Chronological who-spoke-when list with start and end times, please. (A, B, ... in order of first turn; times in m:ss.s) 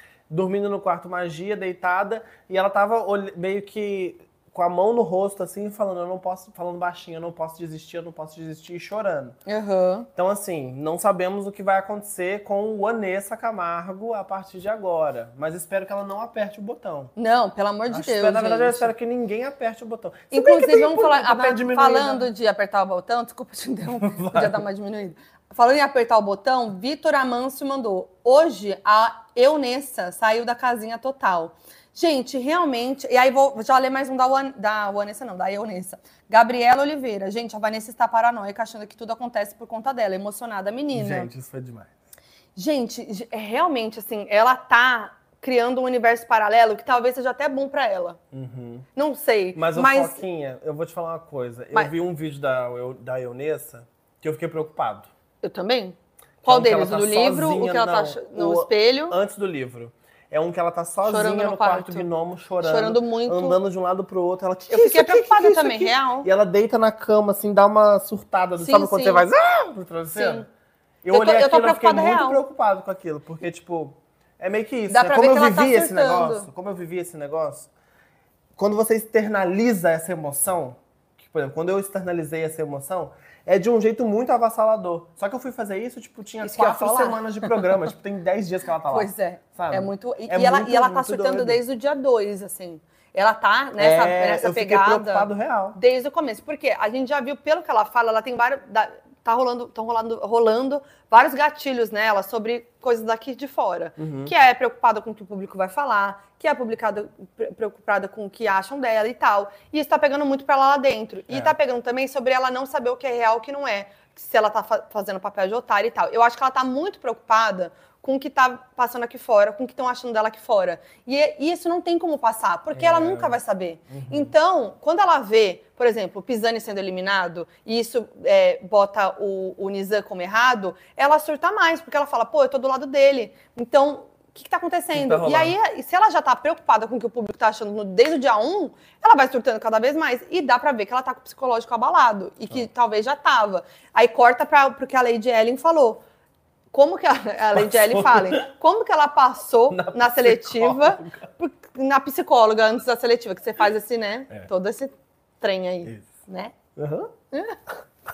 0:00.3-0:09.4 A
0:09.4-0:10.1 B
0:10.2-0:17.1 A
0:17.2-0:18.9 B
0:17.9-0:22.3 A
0:20.3-0:41.3 B
0:24.0-0:24.6 A
0:40.9-0:41.9 A
0:42.6-0:48.2 B
0:48.3-0:48.9 A
0:49.0-0:50.2 B
0:49.5-0:55.1 A
0:55.4-0:59.2 B
0:56.4-1:10.5 A
1:01.0-1:02.1 B
1:02.6-1:03.6 B
1:04.7-1:06.3 B
1:08.6-1:09.3 B
1:10.1-1:10.5 B
1:11.0-1:17.7 A
1:11.1-1:12.4 B
1:14.9-1:16.5 B
1:18.6-1:31.6 A
1:26.4-1:27.7 B
1:28.9-2:26.0 B
1:33.8-1:35.8 A
1:44.0-1:44.3 A
1:51.3-1:51.5 A
2:02.7-2:03.4 A
2:03.9-2:04.3 A
2:14.9-2:15.5 A
2:26.7-2:36.6 B
2:27.5-2:28.4 A
2:29.7-2:31.2 A
2:35.8-2:36.1 A
2:36.8-2:37.1 A
2:37.3-2:37.6 B